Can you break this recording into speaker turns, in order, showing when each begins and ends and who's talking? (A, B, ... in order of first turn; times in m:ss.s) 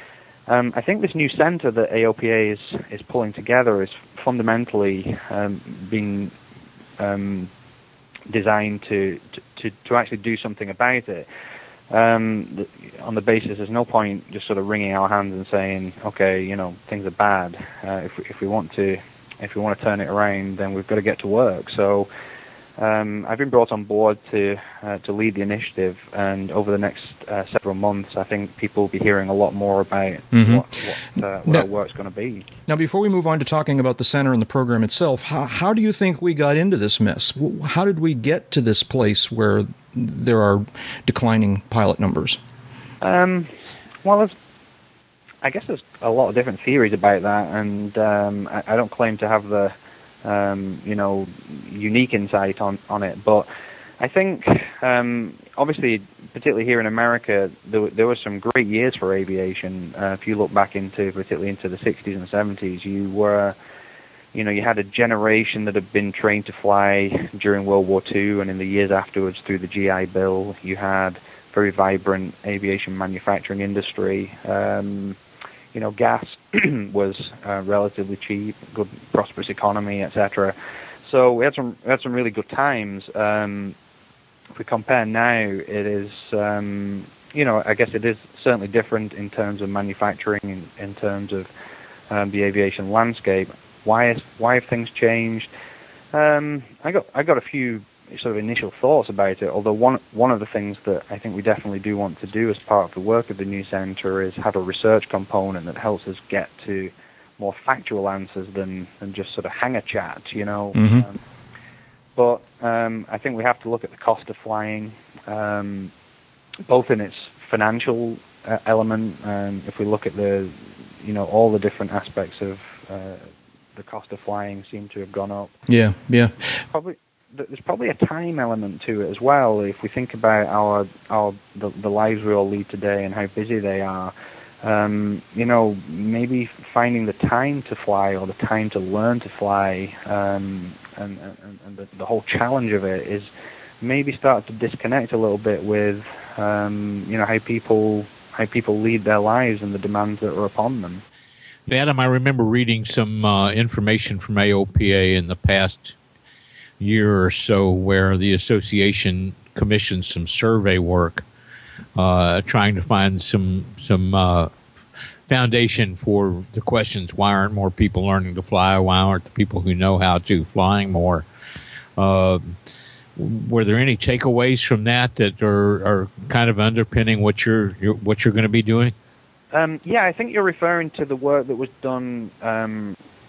0:00.5-0:06.3 A
0:07.0-0:07.5 A
0:08.3-0:11.3 A
0:11.9-0:22.1 A
0:22.8-0:32.5 A
0:30.3-0:30.7 B
0:32.7-0:42.4 B
0:43.0-0:43.5 A
0:44.0-0:44.3 A
0:45.4-0:53.5 A
0:54.0-1:03.6 A
1:04.3-1:15.2 A
1:15.7-1:20.6 A
1:21.1-1:23.8 A
1:24.6-1:31.5 A
1:32.1-1:35.5 A
1:36.1-1:51.2 A
1:50.8-1:51.1 B
1:52.2-1:55.9 A
1:56.7-2:05.5 A
2:05.7-2:06.6 B
2:06.7-2:23.3 A
2:23.8-2:31.0 A
2:31.7-2:36.0 C
2:36.8-2:41.3 C
2:42.0-2:44.5 C
2:45.3-2:51.3 C
2:52.0-2:52.6 C
2:53.2-2:58.9 C
2:59.5-3:03.0 A